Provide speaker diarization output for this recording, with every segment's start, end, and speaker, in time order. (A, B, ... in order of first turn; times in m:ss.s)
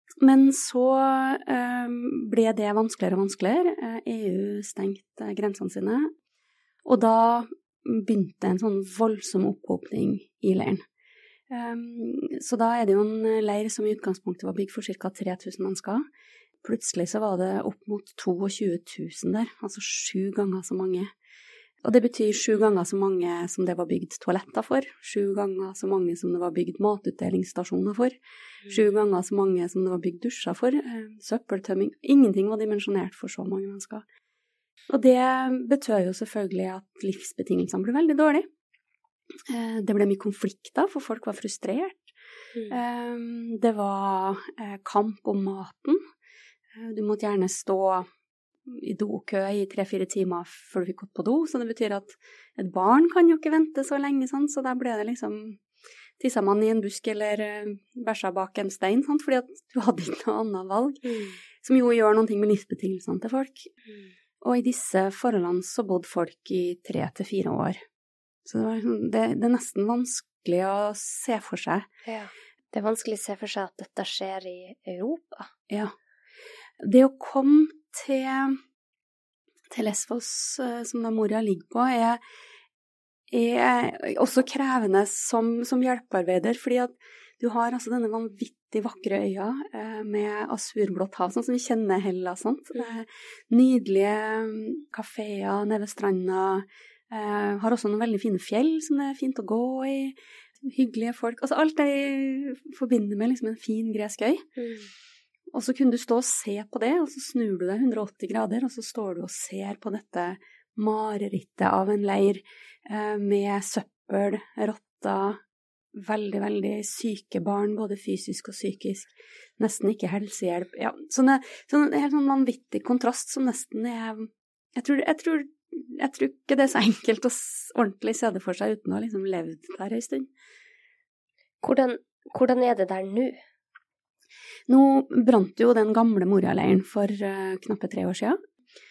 0:00.2-0:06.1 A
0:06.8-0:10.8 A
0:11.5-0:16.0 A
0:16.6-0:21.1 A
0:21.8-0:34.0 A
0:34.9-0:38.5 A
0:39.4-0:42.1 A
0:42.7-0:46.0 A
0:46.7-0:48.1 A
0:48.6-0:55.6 A
0:56.2-1:01.0 A
1:01.0-1:01.4 B
1:01.6-1:03.7 A
1:04.4-1:07.8 A
1:08.4-1:11.9 A
1:12.0-1:15.5 B
1:16.8-1:18.6 A
1:19.7-1:22.2 A
1:23.3-1:44.4 A
1:44.6-1:44.9 B
1:45.5-1:55.4 A
1:55.9-2:10.3 A
2:11.6-2:13.3 B
2:14.7-2:18.4 A